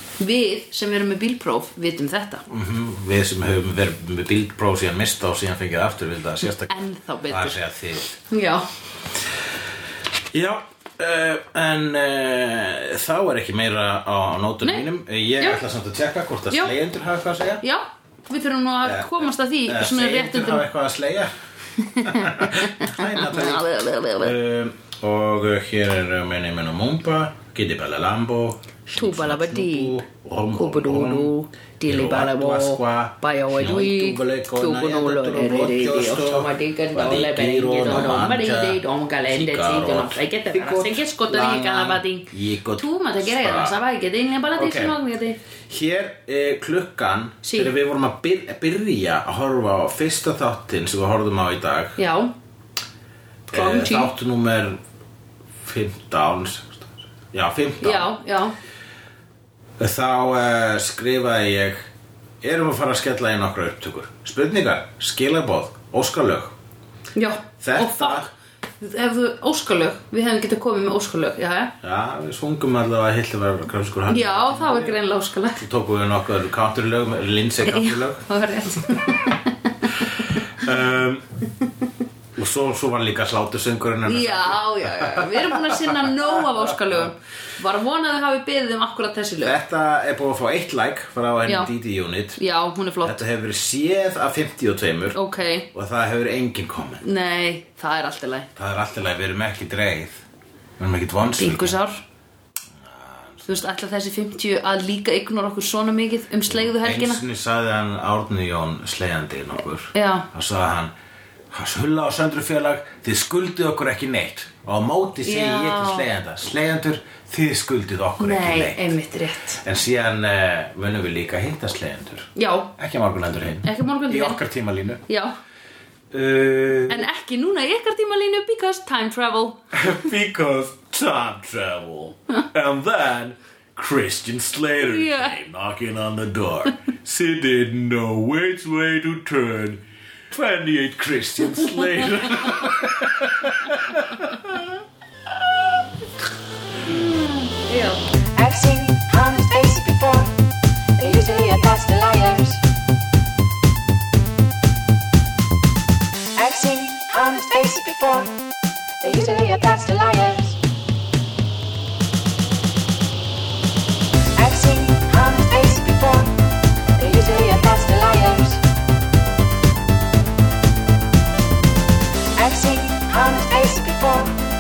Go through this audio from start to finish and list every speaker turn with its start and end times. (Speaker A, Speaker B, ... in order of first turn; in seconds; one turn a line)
Speaker A: 0.2-2.4
Speaker B: 2.5-6.8
Speaker A: 6.7-7.6
Speaker B: 7.3-8.2
Speaker A: 8.2-8.7
Speaker B: 10.3-17.6
Speaker A: 16.5-16.8
Speaker A: 17.6-20.6
Speaker B: 18.9-21.3
Speaker A: 21.8-24.4
Speaker B: 22.0-31.3
Speaker A: 28.9-30.0
Speaker A: 30.5-45.4
Speaker B: 31.9-43.8
Speaker B: 44.5-45.0
Speaker B: 45.7-52.0
Speaker A: 47.4-47.7
Speaker A: 52.0-52.3
Speaker A: 53.5-54.1
Speaker B: 53.5-54.8
Speaker B: 55.6-58.1
Speaker A: 57.8-58.5
Speaker B: 59.8-61.9
Speaker B: 62.4-66.5
Speaker A: 67.2-71.7
Speaker B: 67.6-68.3
Speaker B: 71.8-75.0
Speaker A: 74.1-75.6
Speaker B: 75.6-78.2
Speaker A: 77.7-80.4
Speaker B: 80.2-81.2
Speaker B: 82.4-87.1
Speaker A: 84.1-89.6
Speaker B: 89.4-92.4
Speaker A: 91.5-91.7
Speaker A: 92.4-93.2
Speaker B: 93.0-95.2
Speaker A: 95.1-95.7
Speaker B: 95.7-97.0
Speaker A: 97.0-98.5
Speaker B: 98.6-100.2
Speaker B: 100.8-101.8
Speaker A: 101.4-102.0
Speaker B: 102.8-103.6
Speaker A: 103.5-107.2
Speaker B: 106.5-110.9
Speaker A: 109.9-110.3
Speaker B: 111.5-118.9
Speaker A: 115.2-116.1
Speaker A: 118.2-119.6
Speaker B: 119.6-125.0
Speaker A: 122.4-122.7
Speaker A: 123.6-124.4
Speaker A: 125.1-125.3
Speaker B: 126.1-127.1
Speaker A: 126.9-129.6
Speaker B: 129.7-145.9
Speaker A: 134.8-135.4
Speaker A: 147.6-148.0
Speaker C: 148.4-150.3
Speaker C: 151.0-152.6
Speaker C: 156.4-158.3
Speaker C: 159.0-160.6
Speaker C: 164.4-166.3
Speaker C: 167.0-168.6
Speaker C: 172.4-174.3